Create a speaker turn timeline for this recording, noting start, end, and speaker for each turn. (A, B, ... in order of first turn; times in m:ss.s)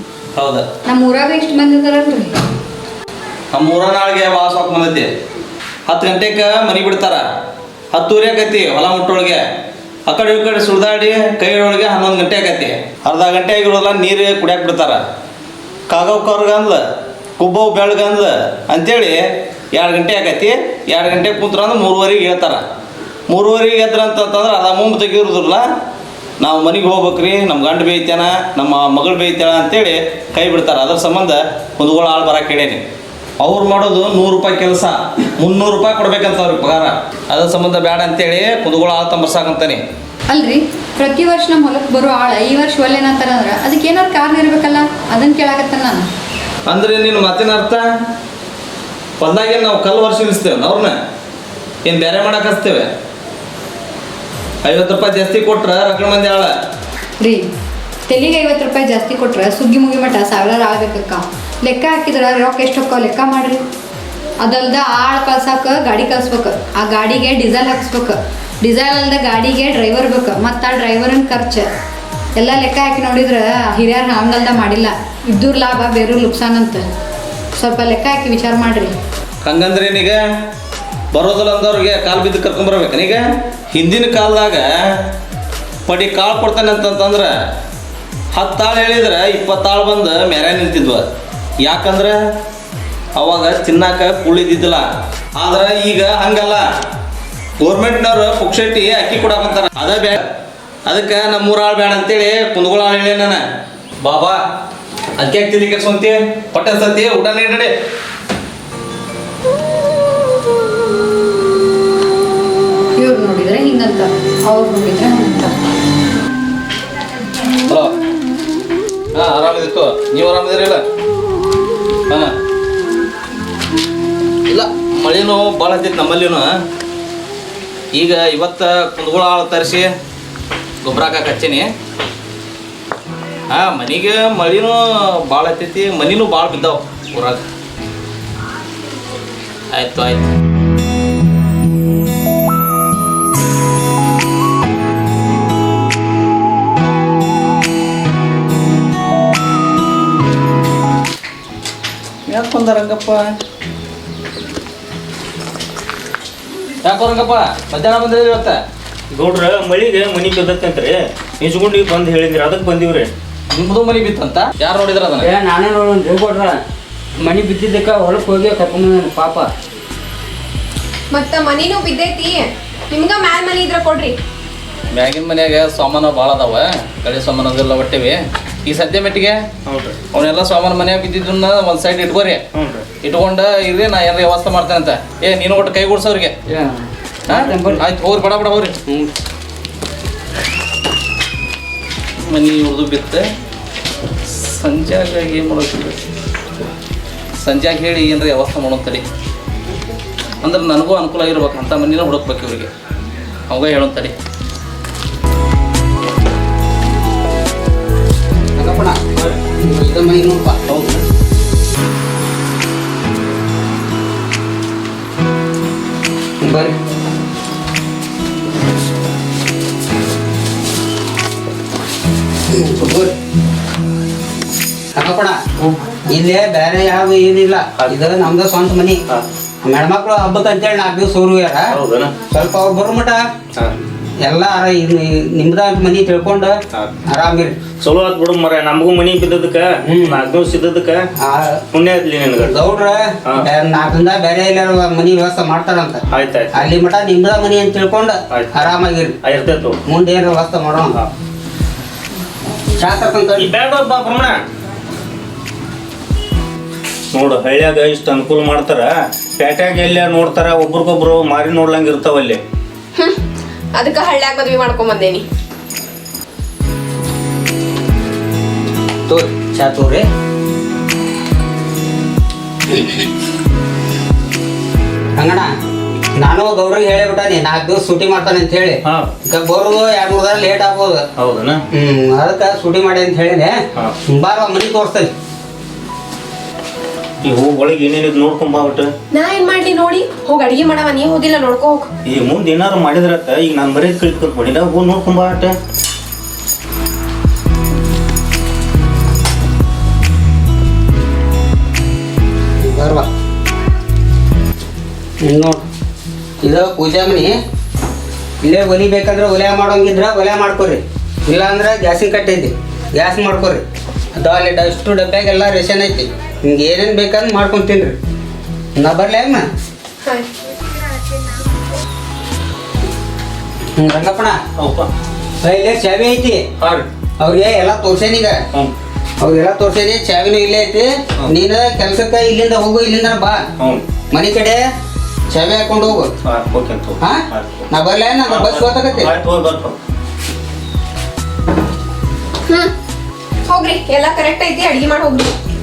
0:00.4-0:00.6 A
0:00.9-0:02.4 B
0:03.5-0:05.1 A
0:05.9-0:07.2 A
0:07.9-0:09.4 A
0:10.1-0:15.0 A
0:15.9-0:16.8 A
0:17.4-0:19.2 A
0:19.8-0:22.6 A
0:23.3-0:25.6 A
0:26.4-0:32.8 A
0:33.4-0:39.8 A
0:40.3-0:46.1 B
0:46.7-0:47.8 A
0:49.2-0:51.0 A
0:51.8-0:52.9 A
0:54.6-0:56.5 A
0:57.2-0:57.5 B
0:58.1-1:03.6 B
1:04.4-1:11.7 B
1:12.4-1:16.8 B
1:17.6-1:19.0 B
1:19.4-1:20.2 A
1:21.1-1:23.2 A
1:23.7-1:24.7 A
1:25.9-1:27.3 A
1:28.3-1:31.0 A
1:31.7-1:32.2 A
1:33.2-1:34.8 A
1:35.4-1:36.6 A
1:37.6-1:40.2 A
1:40.9-1:43.4 A
1:44.0-1:44.4 A
1:45.2-1:47.7 A
1:53.0-1:55.6 B
1:57.7-1:57.9 A
1:59.2-2:00.8 A
2:04.5-2:06.5 A
2:07.9-2:09.9 A
2:10.8-2:11.7 A
2:13.5-2:17.4 A
2:19.7-2:20.3 A
2:32.3-2:33.4 A
2:36.8-2:38.6 A
2:39.1-2:43.1 C
2:43.5-2:45.3 A
2:45.2-2:46.6 D
2:47.2-2:49.5 D
2:51.1-2:54.2 E
2:54.9-2:59.4 A
2:59.7-3:00.0 C
3:00.1-3:02.4 A
3:02.5-3:02.9 C
3:03.0-3:06.7 A
3:07.3-3:08.8 A
3:07.3-3:07.8 D
3:12.2-3:13.2 A
3:14.3-3:16.0 A
3:17.4-3:19.0 A
3:20.4-3:22.7 A
3:23.5-3:24.1 A
3:28.6-3:30.6 D
3:30.7-3:31.0 C
3:36.4-3:36.8 D
3:42.5-3:43.2 D
3:45.0-3:49.0 D
3:49.6-3:51.7 D
3:51.7-3:52.1 C
3:52.3-3:53.2 D
3:54.2-3:56.6 D
3:57.1-3:57.6 D
3:57.8-4:01.0 C
3:59.8-4:00.2 D
4:01.2-4:01.6 D
4:01.7-4:02.6 C
4:02.4-4:06.0 D
4:06.1-4:06.7 C
4:06.5-4:09.2 D
4:08.3-4:08.7 C
4:09.2-4:09.8 C
4:09.9-4:11.0 D
4:12.8-4:13.5 D
4:13.4-4:14.4 C
4:17.1-4:22.4 C
4:23.8-4:25.2 E
4:29.1-4:30.1 D
4:35.2-4:35.5 D
4:36.2-4:41.0 D
4:38.8-4:39.1 C
4:41.2-4:41.6 C
4:41.7-4:43.5 D
4:44.1-4:45.1 D
4:47.2-4:48.9 C
4:49.1-4:51.9 E
4:52.1-4:55.6 C
5:02.6-5:03.1 D
5:05.2-5:05.6 D
5:06.4-5:07.3 D
5:08.4-5:13.6 D
5:14.2-5:18.0 D
5:18.8-5:19.4 D
5:20.0-5:20.3 E
5:23.8-5:24.4 D
5:24.6-5:24.9 C
5:25.4-5:26.4 D
5:26.6-5:26.9 C
5:27.2-5:28.4 D
5:29.2-5:33.4 D
5:33.6-5:33.8 C
5:34.1-5:34.6 D
5:35.3-5:36.1 D
5:36.2-5:37.7 C
5:37.0-5:39.1 D
5:38.2-5:39.8 C
5:43.5-5:45.3 E